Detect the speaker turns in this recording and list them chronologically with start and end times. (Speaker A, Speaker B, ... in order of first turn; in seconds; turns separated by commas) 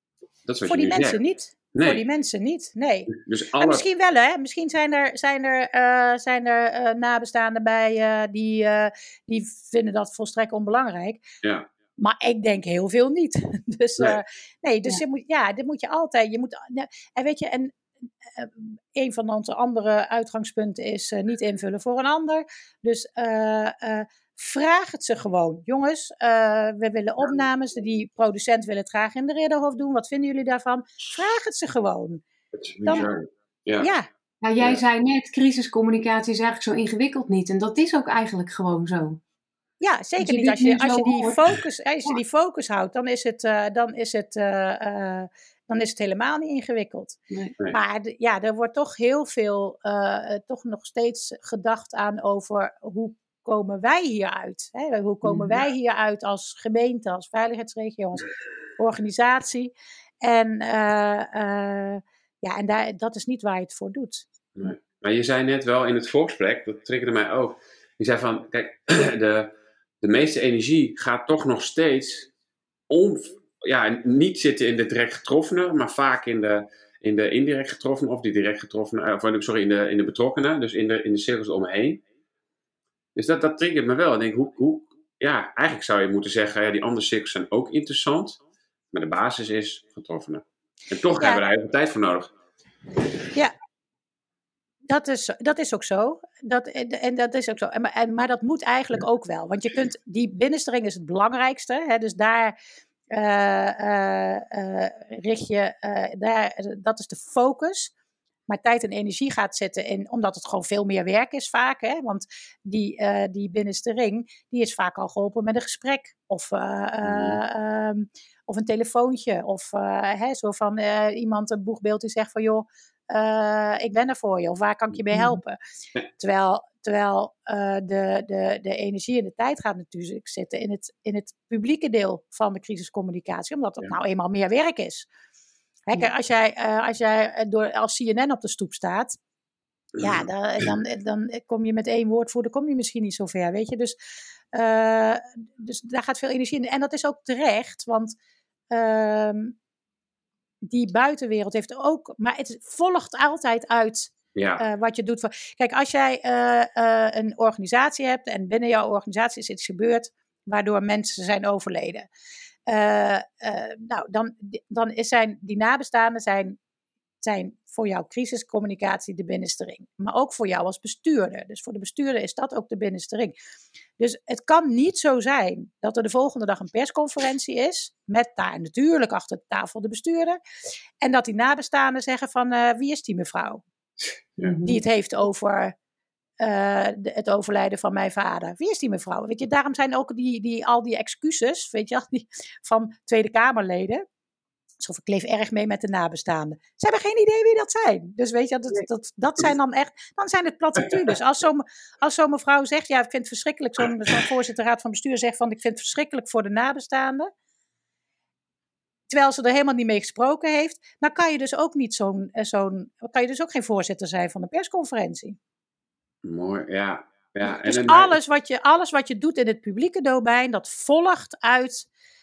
Speaker A: 0.5-1.2, Speaker B: 0.6-11.2, Speaker A: 1.8-2.0, Speaker A: 3.1-3.8, Speaker A: 11.4-11.7, Speaker B: 12.0-32.2, Speaker A: 32.5-33.9, Speaker B: 33.8-34.1, Speaker C: 34.4-39.2, Speaker B: 39.8-47.2, Speaker C: 40.2-41.4, Speaker B: 47.7-64.3, Speaker C: 55.2-55.5, Speaker A: 64.6-72.3, Speaker A: 72.9-82.0, Speaker A: 83.2-88.4, Speaker A: 88.9-92.3, Speaker B: 94.9-102.5, Speaker B: 103.1-107.9, Speaker B: 108.5-125.6, Speaker A: 117.0-117.4, Speaker B: 126.2-135.1, Speaker B: 135.9-139.2, Speaker A: 140.0-140.7, Speaker B: 140.0-144.0, Speaker B: 144.5-148.2, Speaker B: 148.7-149.6, Speaker B: 150.6-162.1, Speaker A: 154.3-154.6, Speaker B: 162.7-166.6, Speaker B: 167.2-173.3, Speaker B: 174.0-180.4, Speaker B: 181.0-183.6, Speaker C: 184.4-184.8, Speaker B: 184.6-185.8, Speaker B: 186.4-194.1, Speaker B: 194.8-207.3, Speaker B: 209.1-215.4, Speaker A: 216.2-218.2, Speaker B: 217.4-221.9